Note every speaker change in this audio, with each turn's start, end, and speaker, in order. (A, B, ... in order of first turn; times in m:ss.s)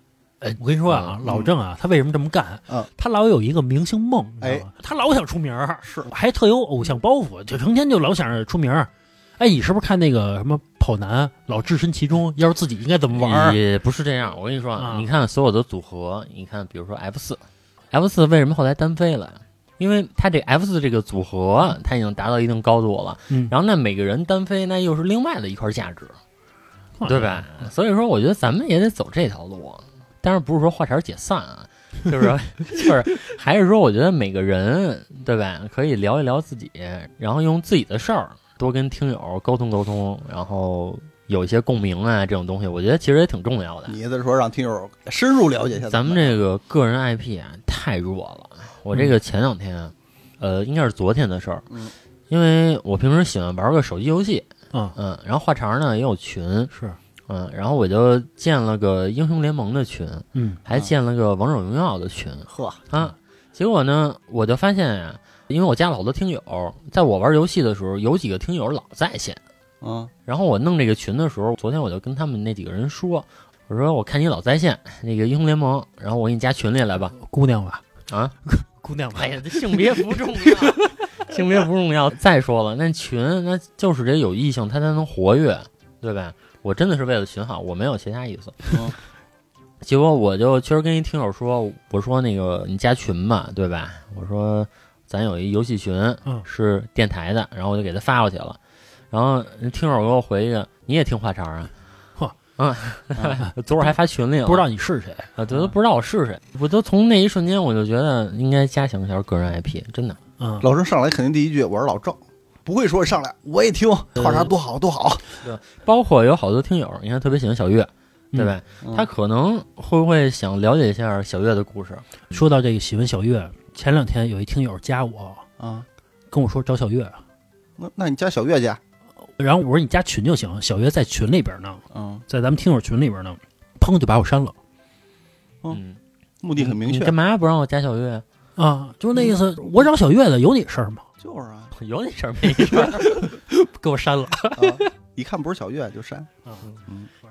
0:00.4-0:13.6 A
0:00.9-0:01.2 B
0:04.4-0:04.7 C
0:05.8-0:06.1 C
0:13.1-0:26.2 B
0:14.8-0:15.1 A
0:27.0-0:27.4 A
0:27.0-0:44.0 B
0:43.9-0:46.4 C
0:45.8-0:51.7 B
0:52.3-0:56.7 B
0:56.7-0:57.0 A
0:57.3-1:09.4 B
1:00.3-1:00.6 A
1:02.5-1:02.8 C
1:09.8-1:10.1 C
1:10.2-1:17.1 B
1:17.2-1:17.8 A
1:18.1-1:18.3 B
1:18.4-1:20.9 A
1:19.1-1:28.9 B
1:29.8-1:38.6 B
1:39.1-1:41.7 B
1:42.6-1:44.6 B
1:44.4-1:45.3 A
1:45.4-1:50.2 B
1:50.4-1:50.6 A
1:50.6-1:55.2 C
1:55.4-2:02.0 B
1:58.8-1:59.1 C
2:02.3-2:05.4 A
2:05.6-2:05.9 C
2:06.3-2:07.2 A
2:07.8-2:08.8 C
2:09.4-2:14.5 A
2:11.9-2:12.2 C
2:15.7-2:16.0 B
2:16.4-2:17.1 C
2:16.6-2:18.2 B
2:18.6-2:21.1 A
2:21.2-2:21.7 C
2:21.7-2:23.2 B
2:22.6-2:24.9 A
2:24.6-2:26.3 C